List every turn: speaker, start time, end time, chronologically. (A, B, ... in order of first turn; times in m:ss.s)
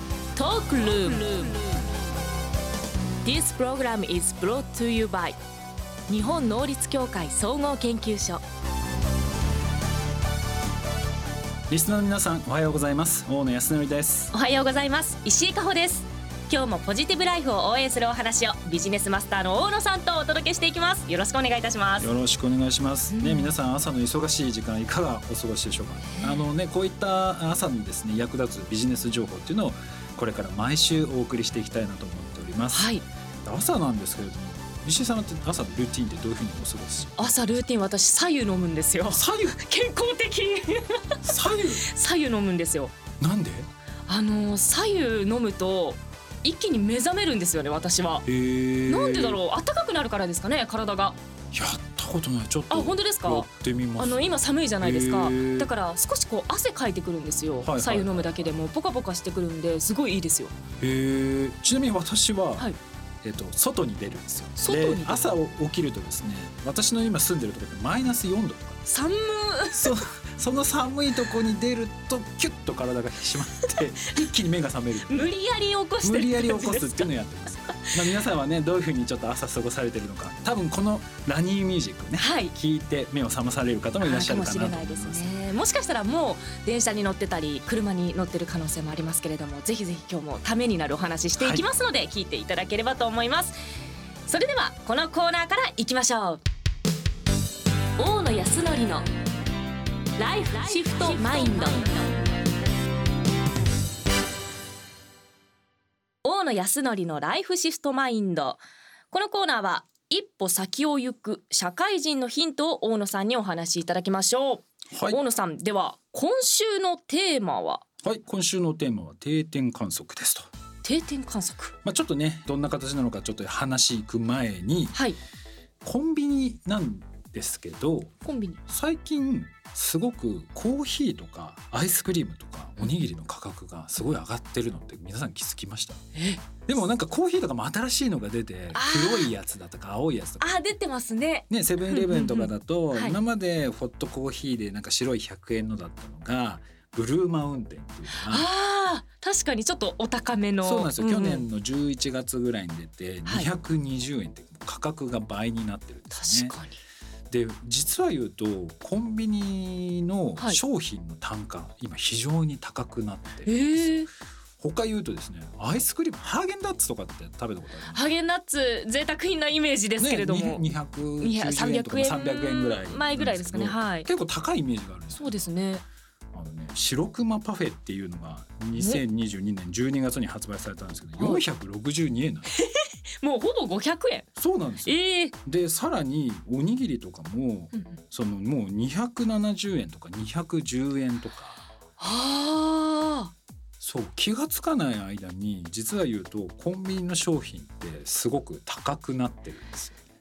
0:00.3-0:01.6 A
0:03.2-0:05.4 A
0:06.1-0:08.4 A
0:11.7-0:14.3 B
0:14.3-0:22.1 A
0:22.0-0:32.9 B
0:23.1-0:23.5 A
0:26.0-0:26.5 A
0:32.7-0:33.0 A
0:33.4-0:37.3 B
0:37.2-0:42.9 A
0:39.1-0:39.6 B
0:41.2-0:41.8 B
0:43.2-0:43.7 B
0:44.1-0:48.2 A
0:48.2-0:49.4 B
0:48.9-0:51.2 A
0:51.5-0:55.7 B
0:52.7-1:00.6 A
0:57.6-0:58.5 B
1:00.8-1:02.7 B
1:03.2-1:08.8 B
1:04.6-1:05.2 A
1:08.9-1:10.0 A
1:09.7-1:15.3 B
1:15.1-1:17.1 A
1:16.0-1:25.3 B
1:22.2-1:22.5 A
1:24.0-1:33.6 A
1:31.4-1:31.6 B
1:34.3-1:36.4 A
1:38.0-1:39.1 A
1:40.2-1:42.1 A
1:46.2-1:57.8 A
1:54.9-1:55.2 B
1:58.0-2:00.5 B
2:00.8-2:01.7 A
2:01.8-2:05.0 B
2:04.9-2:05.2 A
2:05.8-2:08.1 B
2:08.2-2:08.6 A
2:08.7-2:16.0 B
2:16.1-2:16.4 A
2:16.7-2:20.5 B
2:18.7-2:19.3 A
2:20.4-2:23.2 A
2:21.5-2:28.5 B
2:28.2-2:31.5 A
2:30.6-2:36.5 B
2:36.1-2:36.8 A
2:37.3-2:44.1 B
2:43.4-2:44.1 A
2:44.6-2:48.0 B
2:47.9-2:50.7 A
2:50.0-2:55.5 B
2:51.2-2:54.1 A
2:55.2-2:55.8 A
2:56.3-3:02.5 B
2:58.7-2:59.0 A
3:02.5-3:04.3 A
3:04.4-3:11.6 B
3:04.8-3:05.3 A
3:07.7-3:08.0 A
3:12.0-3:13.3 A
3:13.8-3:20.0 B